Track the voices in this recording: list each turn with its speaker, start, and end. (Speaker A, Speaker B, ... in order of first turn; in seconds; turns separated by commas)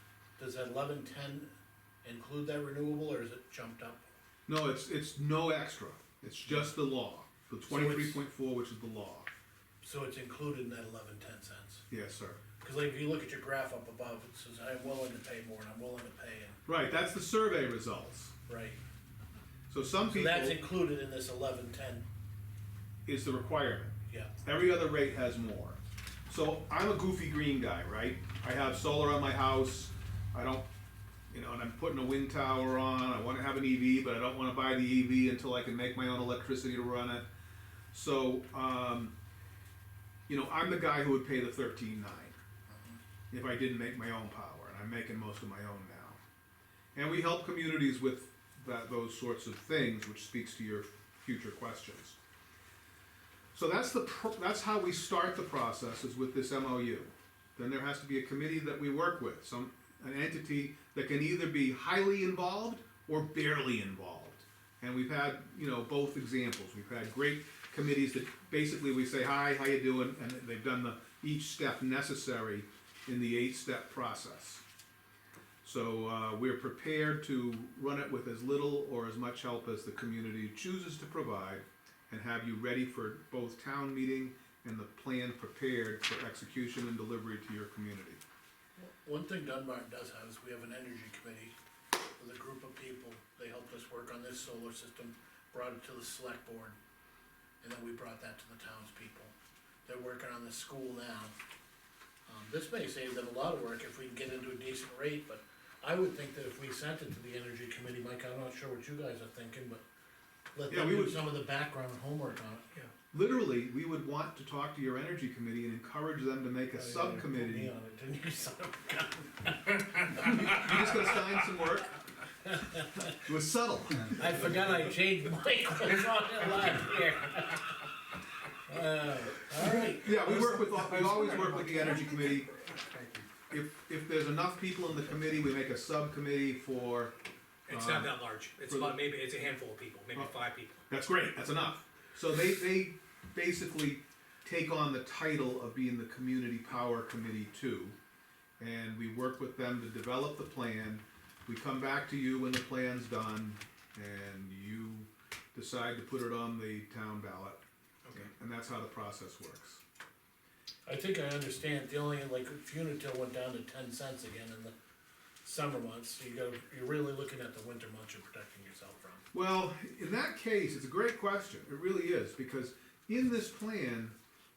Speaker A: 0.4-1.5, Speaker A: 2.0-4.0, Speaker B: 4.5-9.3, Speaker A: 7.7-8.2, Speaker A: 9.8-11.8, Speaker B: 11.9-12.4, Speaker A: 12.6-16.6, Speaker B: 16.7-18.3, Speaker A: 18.5-18.8, Speaker B: 19.7-20.6, Speaker A: 20.1-22.1, Speaker B: 23.1-30.7, Speaker A: 24.1-24.3, Speaker B: 31.3-37.3, Speaker B: 37.9-39.1, Speaker B: 40.3-42.4, Speaker B: 43.3-46.2, Speaker B: 47.0-52.2, Speaker B: 53.5-74.6, Speaker B: 75.6-88.2, Speaker A: 88.8-91.5, Speaker A: 92.2-96.8, Speaker A: 97.6-99.3, Speaker A: 99.8-101.3, Speaker A: 102.3-109.8, Speaker A: 110.5-112.6, Speaker B: 110.7-111.2, Speaker B: 113.1-117.7, Speaker A: 116.7-121.2, Speaker B: 120.2-122.0, Speaker A: 122.4-123.1, Speaker B: 123.1-124.5, Speaker A: 124.1-127.9, Speaker A: 128.7-131.2, Speaker B: 129.6-132.5, Speaker B: 133.5-137.1, Speaker C: 137.7-140.8, Speaker B: 137.7-138.9, Speaker B: 140.9-147.9, Speaker B: 148.6-157.6, Speaker C: 158.0-158.3, Speaker B: 158.1-159.8, Speaker A: 160.8-164.7, Speaker A: 165.4-169.2, Speaker B: 169.3-174.1